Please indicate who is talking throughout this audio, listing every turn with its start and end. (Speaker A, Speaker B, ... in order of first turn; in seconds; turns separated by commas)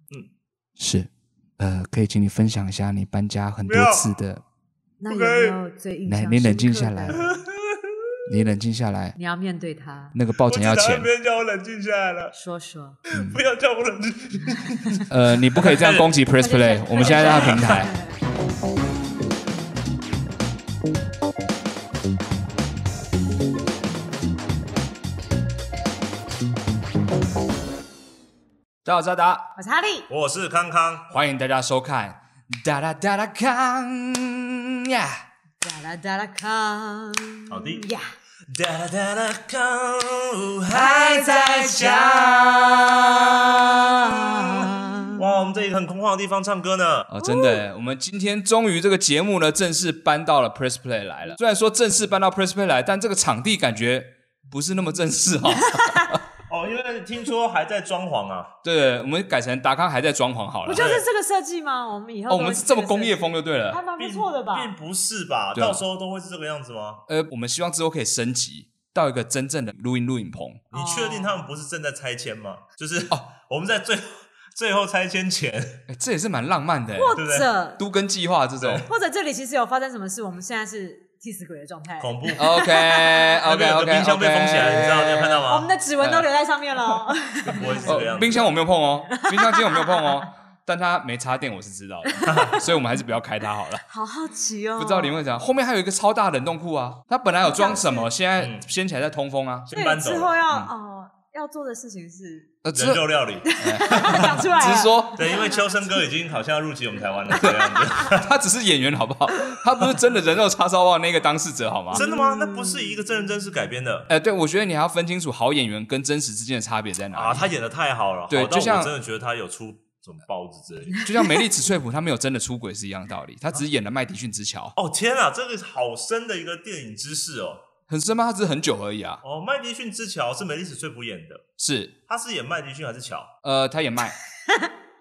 Speaker A: 0.8-4.4, Speaker B: 3.6-4.1, Speaker C: 5.0-7.3, Speaker B: 5.1-5.6, Speaker A: 6.1-7.2, Speaker B: 7.1-8.0, Speaker A: 8.3-9.2, Speaker C: 9.2-10.2, Speaker A: 10.1-11.1, Speaker B: 10.4-12.3, Speaker C: 12.3-13.0, Speaker B: 13.1-15.0, Speaker A: 15.1-17.9, Speaker B: 15.6-16.2, Speaker C: 16.4-18.0, Speaker B: 17.0-17.8, Speaker A: 28.8-29.4, Speaker C: 29.6-30.1, Speaker B: 30.1-31.1, Speaker A: 31.1-35.2, Speaker C: 35.6-38.1, Speaker B: 37.5-37.9, Speaker B: 38.5-42.5, Speaker A: 40.7-44.3, Speaker C: 44.1-45.3, Speaker B: 45.2-47.1, Speaker A: 47.1-56.2, Speaker C: 47.2-47.6, Speaker B: 56.5-58.5, Speaker A: 58.6-60.9, Speaker C: 60.7-64.7, Speaker B: 60.7-61.1, Speaker A: 62.3-63.8, Speaker B: 64.0-67.0, Speaker A: 65.5-65.8, Speaker A: 67.1-70.6, Speaker B: 70.7-75.8, Speaker C: 70.7-71.4, Speaker A: 75.9-77.2, Speaker C: 77.0-77.8, Speaker B: 77.2-77.5, Speaker A: 77.8-78.8, Speaker B: 78.6-78.9, Speaker C: 78.9-83.3, Speaker B: 82.0-82.5, Speaker A: 82.4-85.5, Speaker B: 83.5-85.7, Speaker C: 85.5-88.0, Speaker A: 86.0-86.3, Speaker B: 87.5-88.6, Speaker A: 87.8-93.8, Speaker C: 89.1-90.2, Speaker C: 92.2-92.5, Speaker B: 92.3-92.6, Speaker C: 93.8-95.2, Speaker A: 94.8-99.7, Speaker C: 97.4-98.1, Speaker B: 98.4-98.7, Speaker B: 99.7-100.4, Speaker C: 99.7-102.5, Speaker A: 102.6-103.1, Speaker B: 102.7-104.4, Speaker C: 103.4-105.8, Speaker A: 103.6-105.3, Speaker B: 105.1-108.2, Speaker A: 107.4-112.0, Speaker B: 111.9-114.1, Speaker C: 111.9-112.9, Speaker A: 114.1-117.5, Speaker B: 117.1-121.1, Speaker A: 118.3-118.9, Speaker C: 121.0-121.3, Speaker A: 121.0-124.8, Speaker B: 124.8-127.6, Speaker A: 127.9-129.2, Speaker B: 129.2-131.4, Speaker A: 131.6-131.9, Speaker B: 132.1-133.3, Speaker A: 133.4-134.2